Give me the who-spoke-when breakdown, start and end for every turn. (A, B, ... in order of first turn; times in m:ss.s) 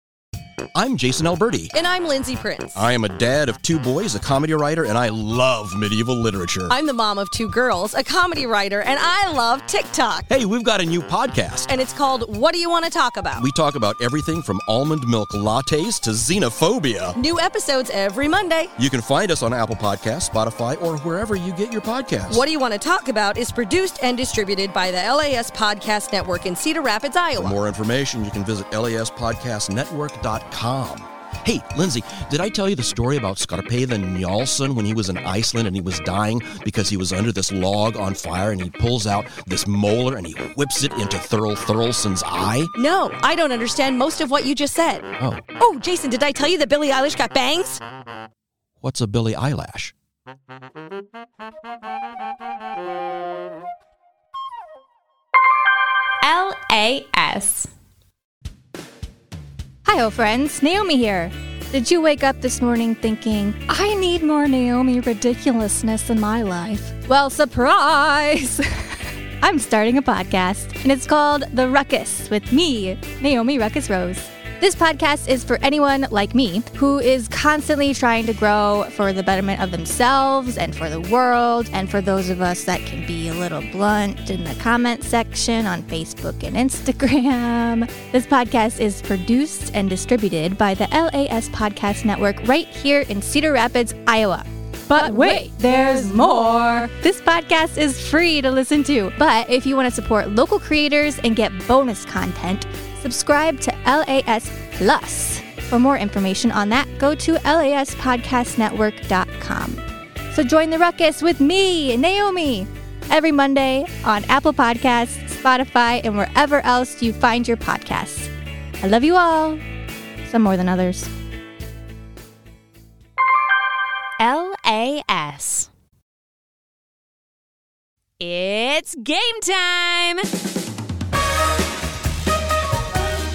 0:00.7-0:01.7 A
0:01.7-0:02.8 B
0:02.8-0:06.7 A
0:06.7-0:10.3 B
0:10.3-0:11.7 A
0:11.7-0:13.5 B
0:13.4-0:17.2 A
0:17.1-0:18.7 B
0:18.8-0:22.4 A
0:22.3-0:27.6 B
0:27.4-0:42.7 A
0:42.8-0:47.8 B
0:45.2-0:45.4 A
0:48.8-0:49.9 A
0:56.2-0:57.7 C
0:59.8-1:59.6 D
2:00.2-2:01.1 D
2:04.2-2:05.7 C
2:08.2-2:10.2 C